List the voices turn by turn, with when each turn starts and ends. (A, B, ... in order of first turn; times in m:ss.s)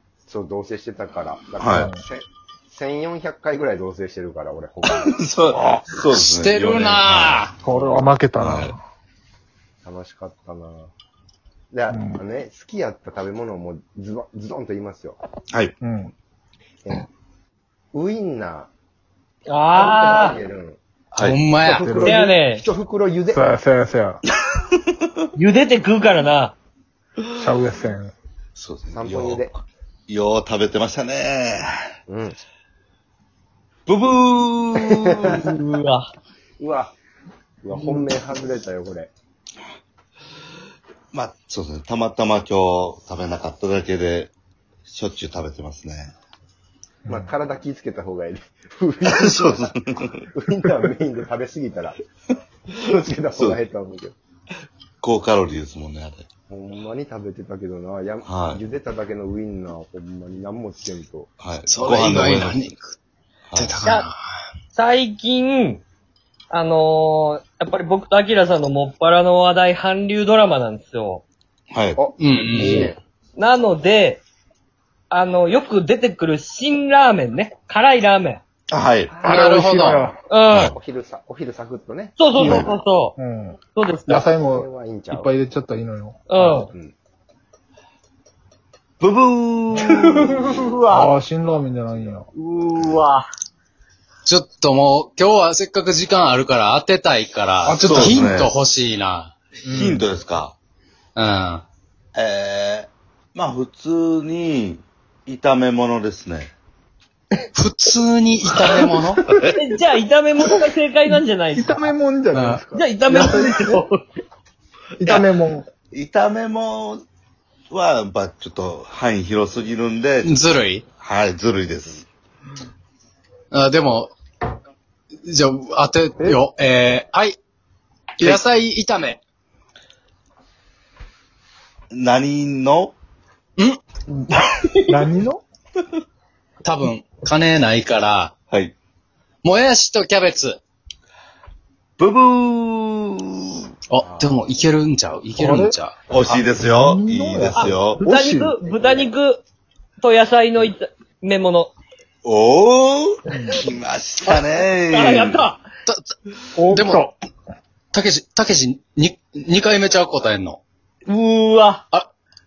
0:00.3-0:05.1 A
0:01.6-0:02.0 B
0:01.6-0:02.0 C
0:05.0-0:07.4 B
0:05.5-0:06.0 C
0:06.1-0:07.5 D
0:07.6-0:08.8 C
0:08.4-0:08.7 B
0:09.8-0:10.9 A
0:11.7-0:15.2 A
0:11.9-0:12.2 C
0:15.8-0:16.1 C
0:17.9-0:18.7 A
0:19.5-0:20.4 E
0:19.7-0:20.8 A
0:21.1-0:21.5 B
0:21.2-0:21.9 D
0:21.6-0:23.4 A
0:21.7-0:22.3 C
0:22.0-0:22.7 E
0:23.3-0:24.2 C
0:24.7-0:25.3 B
0:25.4-0:26.6 E
0:27.4-0:28.1 C
0:28.6-0:31.9 B
0:28.9-0:29.5 A
0:32.1-0:32.4 A
0:33.9-0:35.5 B
0:34.8-0:35.4 A
0:35.3-0:36.1 E
0:36.6-0:37.0 A
0:37.6-0:39.1 A
0:37.7-0:38.1 E
0:41.1-0:44.3 B
0:44.9-0:46.1 B
0:47.0-0:47.3 C
0:47.1-0:49.8 A
0:49.0-0:50.8 B
0:50.4-0:52.0 A
0:52.7-0:54.2 A
0:55.0-0:56.3 B
0:56.5-1:01.3 A
0:58.2-0:58.6 B
1:01.4-1:02.7 B
1:01.7-1:03.0 D
1:03.5-1:03.8 B
1:03.6-1:04.2 D
1:04.7-1:05.8 E
1:06.5-1:11.2 E
1:11.7-1:12.0 B
1:12.0-1:13.0 A
1:12.2-1:13.0 D
1:13.4-1:14.2 E
1:15.1-1:18.4 E
1:18.7-1:19.1 B
1:19.1-1:19.5 A
1:19.2-1:20.2 C
1:19.2-1:20.1 D
1:20.3-1:20.7 E
1:20.5-1:20.8 B
1:20.6-1:22.2 A
1:22.2-1:23.2 E
1:22.4-1:26.7 C
1:23.7-1:24.3 E
1:24.1-1:25.3 A
1:26.3-1:26.7 E
1:26.6-1:26.9 A
1:29.0-1:30.7 B
1:29.8-1:31.1 E
1:30.9-1:32.3 C
1:32.4-1:33.3 E
1:34.3-1:39.3 D
1:37.8-1:38.3 C
1:37.8-1:38.5 B
1:39.6-1:40.1 C
1:39.7-1:40.6 B
1:41.2-1:41.6 D
1:42.2-1:46.5 B
1:47.6-1:49.2 D
1:49.5-1:51.9 E
1:51.6-1:53.8 C
1:52.3-1:52.6 D
1:52.7-1:54.0 E
1:55.0-1:55.7 C
1:55.9-1:57.0 B
1:57.7-2:00.4 B
2:00.2-2:00.8 D
2:01.0-2:02.1 B
2:03.5-2:04.1 D
2:05.2-2:07.4 D
2:08.2-2:09.2 D
2:11.9-2:13.0 B
2:14.1-2:15.1 E
2:14.9-2:15.4 C
2:16.6-2:18.3 D
2:18.5-2:18.8 B
2:19.4-2:20.6 D
2:22.0-2:24.3 B
2:23.9-2:26.4 D
2:25.4-2:25.8 C
2:26.1-2:28.1 B
2:26.4-2:28.6 C
2:27.6-2:29.4 E
2:28.7-2:29.1 A
2:30.0-2:31.7 E
2:32.2-2:35.5 B
2:33.3-2:33.7 C
2:34.2-2:35.6 E
2:35.9-2:36.1 D
2:36.6-2:37.1 C
2:36.7-2:37.0 D
2:37.9-2:40.6 D
2:41.1-2:41.8 E